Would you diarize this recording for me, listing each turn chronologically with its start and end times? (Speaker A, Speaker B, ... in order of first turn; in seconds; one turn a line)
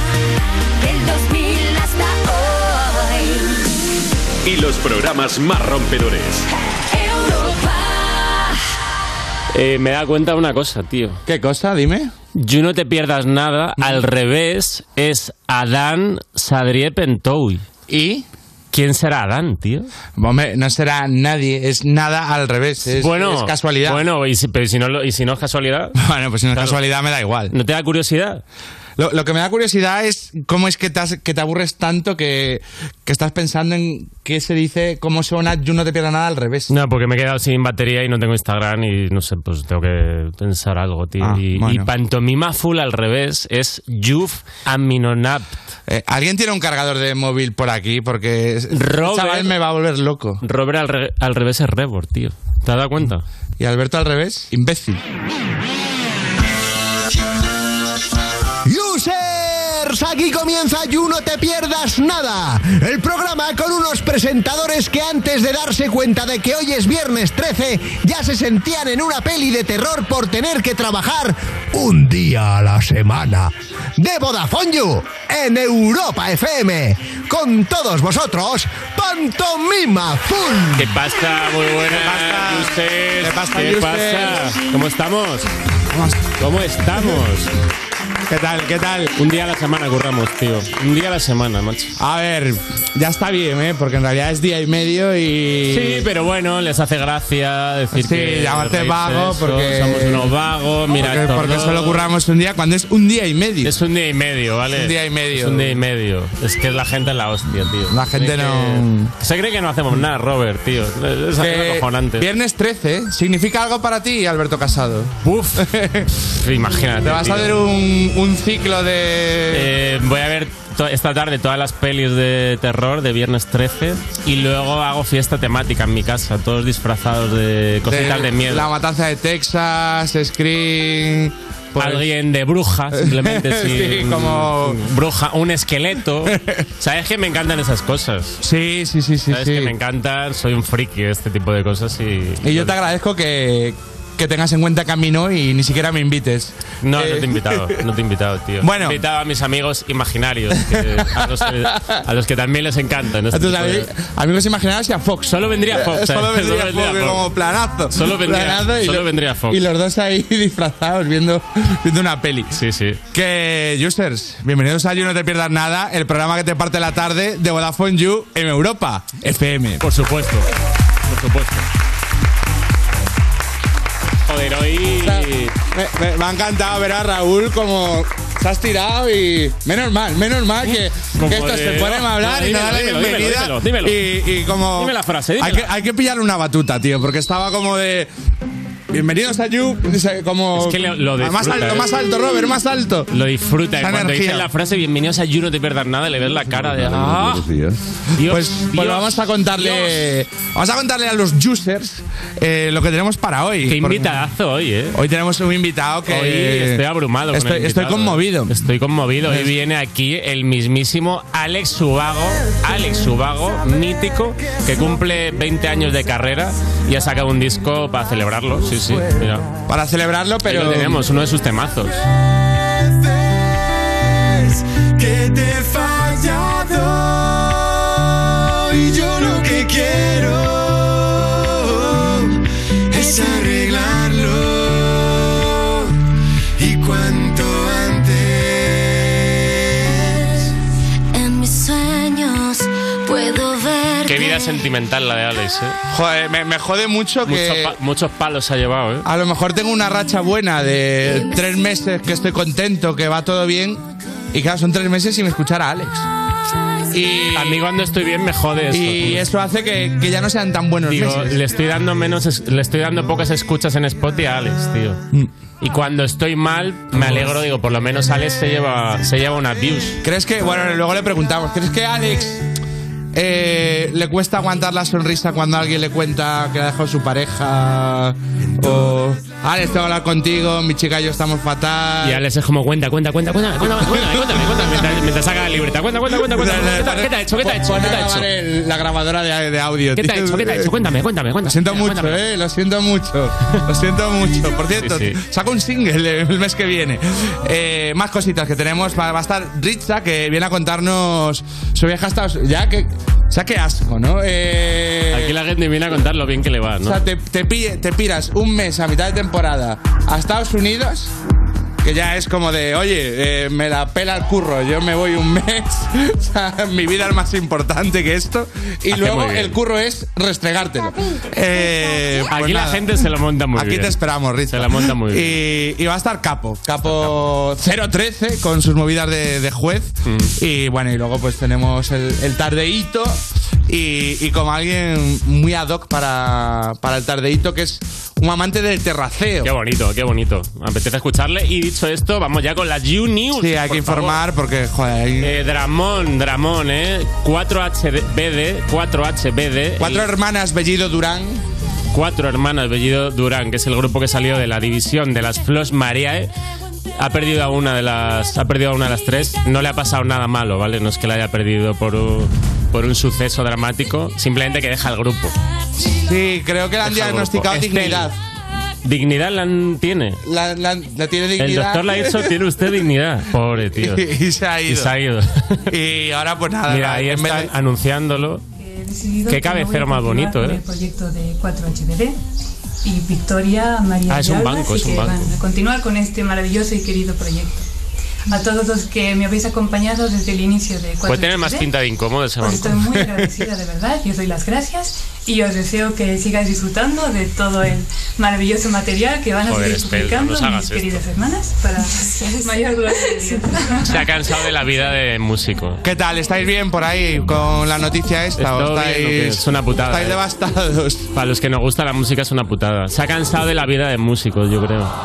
Speaker A: 0.8-3.5
Speaker B: 4.4-6.5
Speaker A: 6.9-8.5
Speaker C: 9.5-11.2
Speaker D: 11.2-12.1
Speaker C: 12.3-17.6
Speaker D: 17.9-18.2
Speaker C: 18.7-19.9
Speaker D: 20.2-24.0
Speaker C: 22.9-25.9
Speaker D: 25.9-27.5
Speaker C: 27.5-28.4
Speaker D: 29.0-36.7
Speaker C: 36.7-45.6
Speaker D: 41.2-41.9
Speaker D: 45.9-50.4
Speaker C: 48.7-49.5
Speaker C: 50.4-53.2
Speaker D: 53.6-55.0
Speaker E: 58.6-80.9
Speaker C: 80.8-85.5
Speaker D: 81.9-84.6
Speaker D: 85.9-86.3
Speaker C: 86.4-87.5
Speaker D: 87.0-87.2
Speaker D: 88.3-89.1
Speaker C: 89.2-92.0
Speaker D: 92.0-96.1
Speaker C: 95.7-102.0
Speaker D: 97.9-100.3
Speaker D: 100.9-103.7
Speaker C: 103.6-112.2
Speaker D: 104.7-105.8
Speaker D: 107.9-109.1
Speaker D: 111.4-116.1
Speaker C: 115.2-115.7
Speaker C: 116.3-117.6
Speaker D: 117.0-119.7
Speaker C: 119.5-128.7
Speaker D: 127.8-132.1
Speaker C: 131.8-138.4
Speaker D: 132.9-134.8
Speaker D: 136.3-136.6
Speaker D: 138.4-139.7
Speaker C: 139.3-142.8
Speaker D: 142.4-147.7
Speaker C: 146.8-153.9
Speaker D: 148.6-149.0
Speaker D: 150.6-152.0
Speaker D: 153.3-162.5
Speaker C: 155.3-157.3
Speaker C: 157.9-159.6
Speaker C: 162.5-163.0
Speaker D: 163.1-169.8
Speaker C: 169.8-170.5
Speaker C: 171.1-171.6
Speaker C: 174.3-175.5
Speaker D: 174.9-188.1
Speaker C: 181.2-184.0
Speaker C: 184.8-185.7
Speaker D: 188.9-193.1
Speaker C: 190.6-191.9
Speaker C: 193.1-197.6
Speaker D: 193.8-194.5
Speaker C: 198.2-200.0
Speaker D: 198.2-204.1
Speaker C: 203.6-205.0
Speaker D: 204.9-208.5
Speaker C: 206.1-219.4
Speaker D: 209.2-209.5
Speaker D: 219.7-221.0
Speaker C: 220.4-222.1
Speaker F: 222.4-232.4
Speaker F: 232.9-235.8
Speaker F: 236.6-240.2
Speaker A: 241.1-244.6
Speaker C: 244.0-245.8
Speaker D: 245.9-247.7
Speaker C: 247.2-249.1
Speaker D: 249.0-256.1
Speaker D: 256.9-257.6
Speaker C: 257.3-259.2
Speaker D: 258.7-261.4
Speaker C: 260.9-265.0
Speaker C: 265.6-270.0
Speaker D: 266.9-267.3
Speaker D: 270.0-272.4
Speaker D: 273.1-282.2
Speaker C: 282.0-288.3
Speaker D: 283.7-285.1
Speaker D: 286.1-290.7
Speaker C: 289.9-292.2
Speaker D: 291.4-305.4
Speaker C: 294.8-295.2
Speaker C: 305.1-307.0
Speaker D: 306.8-311.1
Speaker D: 311.8-339.5
Speaker C: 318.9-319.6
Speaker C: 322.3-324.0
Speaker C: 324.5-325.4
Speaker C: 326.8-327.1
Speaker C: 330.1-330.3
Speaker C: 339.4-344.2
Speaker D: 343.3-345.3
Speaker C: 345.2-350.1
Speaker D: 349.8-351.4
Speaker C: 351.9-356.3
Speaker C: 357.0-365.3
Speaker D: 365.8-368.1
Speaker C: 366.8-368.1
Speaker C: 368.8-370.2
Speaker D: 370.2-372.3
Speaker C: 371.4-374.0
Speaker D: 373.8-374.9
Speaker C: 374.7-375.6
Speaker D: 375.7-377.5
Speaker C: 376.7-378.4
Speaker G: 378.6-382.1
Speaker C: 379.3-380.6
Speaker G: 382.8-387.6
Speaker C: 384.1-385.3
Speaker G: 388.3-391.7
Speaker C: 391.0-392.8
Speaker G: 392.4-404.0
Speaker D: 392.9-393.3
Speaker C: 399.4-401.0
Speaker C: 403.8-405.8
Speaker D: 405.8-411.1
Speaker C: 408.4-410.2
Speaker C: 411.1-414.9